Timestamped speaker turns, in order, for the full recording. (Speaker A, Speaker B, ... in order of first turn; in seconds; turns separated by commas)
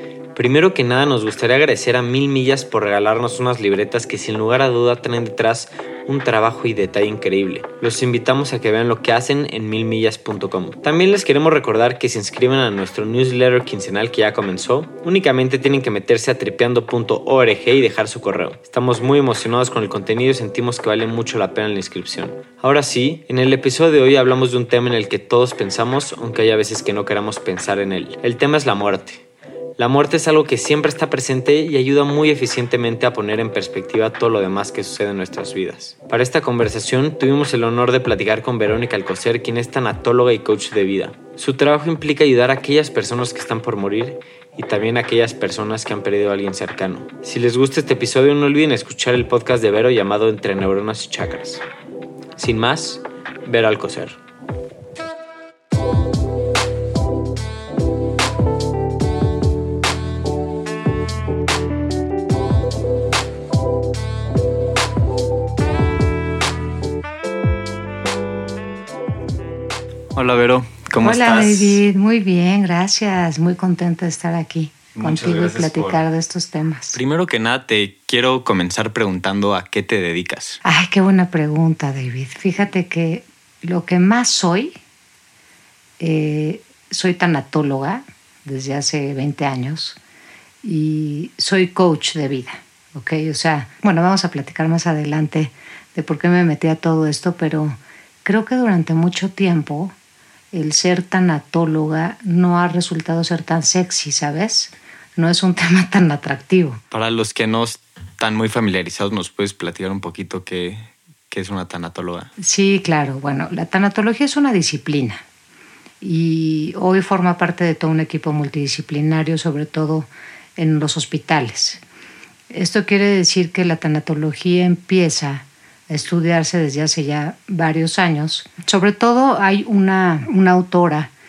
Speaker A: 0.3-29.2, Speaker A: 29.8-51.6, Speaker A: 52.4-54.2, Speaker A: 70.1-71.8, Speaker B: 71.0-77.0, Speaker A: 75.0-76.0, Speaker A: 76.9-80.6, Speaker B: 80.6-84.8, Speaker B: 86.0-90.0, Speaker B: 90.6-99.9, Speaker B: 100.5-106.8, Speaker A: 106.9-112.3, Speaker B: 112.4-115.2, Speaker B: 116.0-121.8, Speaker B: 122.5-131.1